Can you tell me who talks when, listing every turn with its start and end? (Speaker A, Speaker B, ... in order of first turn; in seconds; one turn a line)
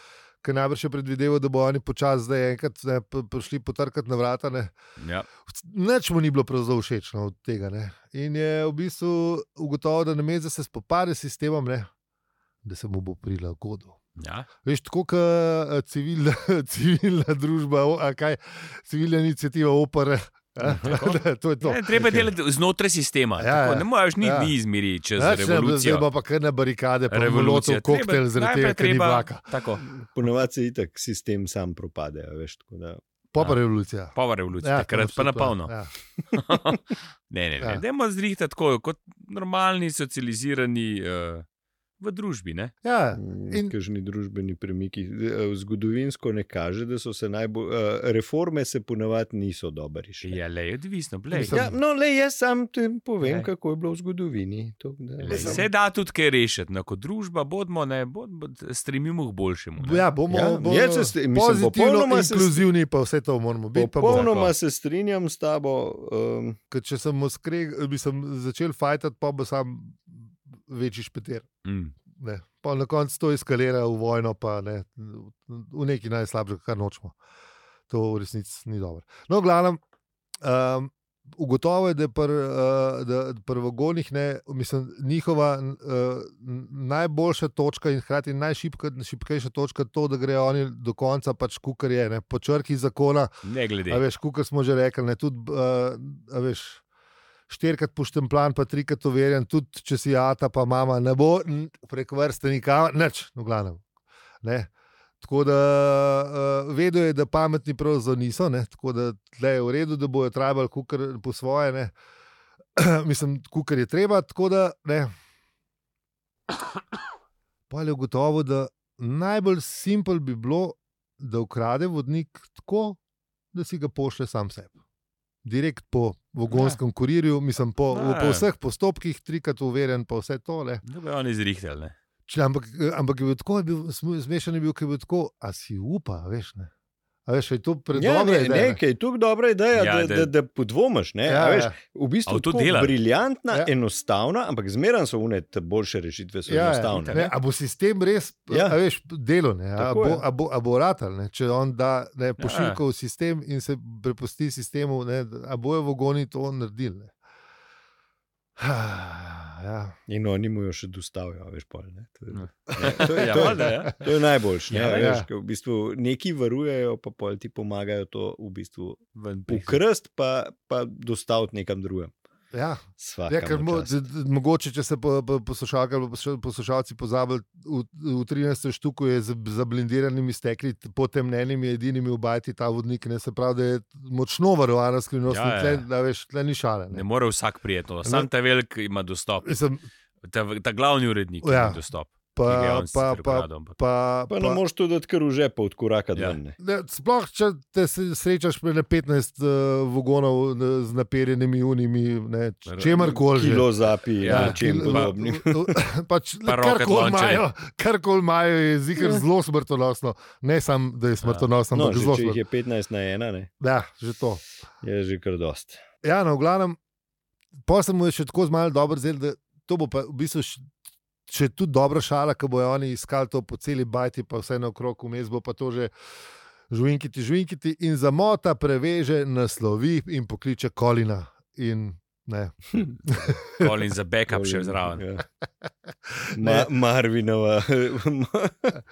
Speaker A: 0.4-4.7
Speaker B: 5.0-5.3
Speaker A: 5.5-11.9
Speaker A: 12.6-14.0
Speaker B: 14.2-14.5
Speaker A: 14.6-22.3
Speaker B: 20.8-26.1
Speaker A: 23.4-24.5
Speaker A: 25.2-29.4
Speaker B: 27.1-29.8
Speaker C: 29.8-33.0
Speaker A: 33.3-35.9
Speaker B: 34.1-35.7
Speaker B: 36.3-41.4
Speaker B: 42.0-42.7
Speaker A: 42.8-43.7
Speaker C: 43.2-50.4
Speaker B: 50.2-51.6
Speaker A: 51.3-51.8
Speaker C: 51.5-55.6
Speaker B: 53.2-53.5
Speaker B: 55.2-60.1
Speaker A: 55.3-55.6
Speaker A: 59.8-64.3
Speaker C: 60.3-62.6
Speaker C: 63.7-66.6
Speaker B: 64.1-64.5
Speaker A: 66.7-71.5
Speaker B: 71.6-71.9
Speaker A: 72.1-77.1
Speaker A: 77.9-79.8
Speaker A: 80.4-93.3
Speaker B: 93.4-94.0
Speaker A: 93.9-96.8
Speaker A: 97.5-103.8
Speaker A: 104.4-104.7
Speaker A: 105.2-111.9
Speaker A: 112.8-115.1
Speaker A: 117.7-123.0
Speaker A: 123.5-124.7
Speaker A: 125.4-130.8
Speaker B: 126.5-126.8
Speaker B: 127.9-128.4
Speaker B: 130.8-131.9
Speaker A: 132.3-136.7
Speaker A: 137.2-138.8
Speaker C: 137.9-147.3
Speaker B: 139.7-140.3
Speaker A: 141.2-141.8
Speaker B: 142.2-142.9
Speaker A: 146.5-157.1
Speaker C: 148.5-148.8
Speaker C: 149.8-150.2
Speaker B: 152.4-152.8
Speaker A: 158.6-159.9
Speaker C: 160.1-172.1
Speaker B: 162.3-164.1
Speaker A: 162.7-163.9
Speaker B: 164.7-165.1
Speaker A: 164.9-165.3
Speaker B: 169.2-169.8
Speaker A: 172.5-187.0
Speaker C: 173.0-173.9
Speaker B: 185.3-185.8
Speaker B: 186.9-189.6
Speaker A: 189.4-189.8
Speaker B: 190.2-193.8
Speaker A: 191.4-191.8
Speaker A: 192.3-194.6
Speaker C: 194.3-196.6
Speaker A: 196.6-203.7
Speaker B: 202.7-203.2
Speaker C: 203.2-205.8
Speaker B: 204.2-205.1
Speaker A: 204.2-212.4
Speaker B: 206.4-207.4
Speaker C: 211.7-213.5
Speaker A: 213.6-214.4
Speaker C: 214.8-215.8
Speaker A: 216.0-216.8
Speaker A: 217.7-220.6
Speaker A: 221.3-225.9
Speaker A: 226.7-233.7
Speaker B: 233.5-235.0
Speaker C: 234.3-235.2
Speaker A: 236.1-236.7
Speaker C: 236.3-238.8